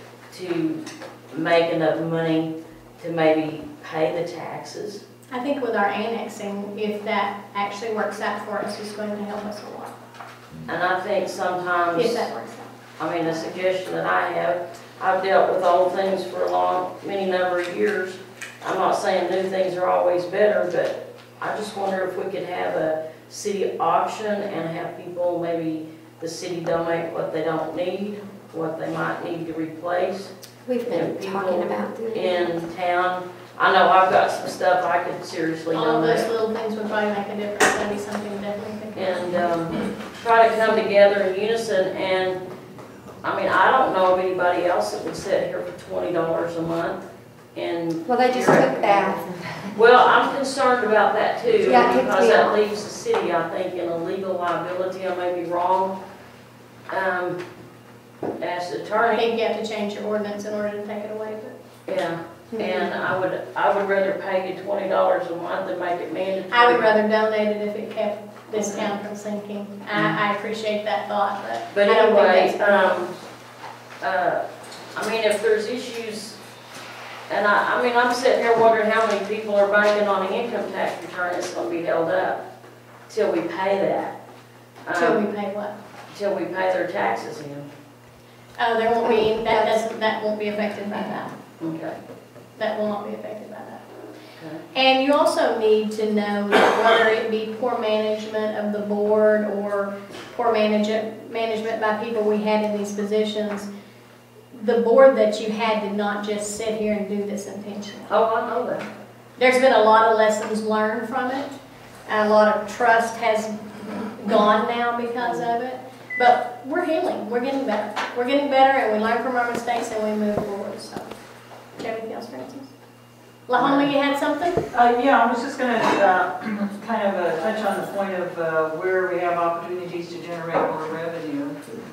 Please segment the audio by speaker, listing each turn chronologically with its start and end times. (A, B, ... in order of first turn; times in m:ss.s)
0:00.3-0:05.0 A
0:05.3-0:10.0 B
0:10.7-0:12.3 A
0:12.0-0:12.7 B
0:13.0-0:30.3 A
0:30.7-0:32.5 C
0:30.9-0:36.3 A
0:35.7-0:39.0 B
0:39.0-0:42.4 A
0:43.2-0:47.0 A
0:47.6-0:56.0 A
0:48.1-0:49.7 C
0:51.6-0:52.6 C
0:56.9-0:57.4 A
0:58.4-0:59.2 A
0:59.1-1:01.5 B
1:01.9-1:07.0 A
1:02.5-1:02.9 C
1:06.5-1:13.0 B
1:08.5-1:08.9 A
1:11.7-1:13.1 A
1:14.0-1:14.4 A
1:15.0-1:16.4 A
1:17.3-1:22.4 A
1:23.1-1:24.2 A
1:24.9-1:25.2 A
1:25.0-1:25.8 B
1:26.1-1:27.7 A
1:28.6-1:31.3 B
1:29.0-1:29.8 C
1:31.6-1:32.0 A
1:32.6-1:33.8 B
1:34.7-1:43.7 B
1:44.5-1:48.1 B
1:48.1-1:48.8 A
1:49.4-2:01.1 B
1:55.2-1:55.5 A
2:01.8-2:02.7 B
2:03.5-2:04.6 B
2:03.6-2:03.9 A
2:04.7-2:11.6 D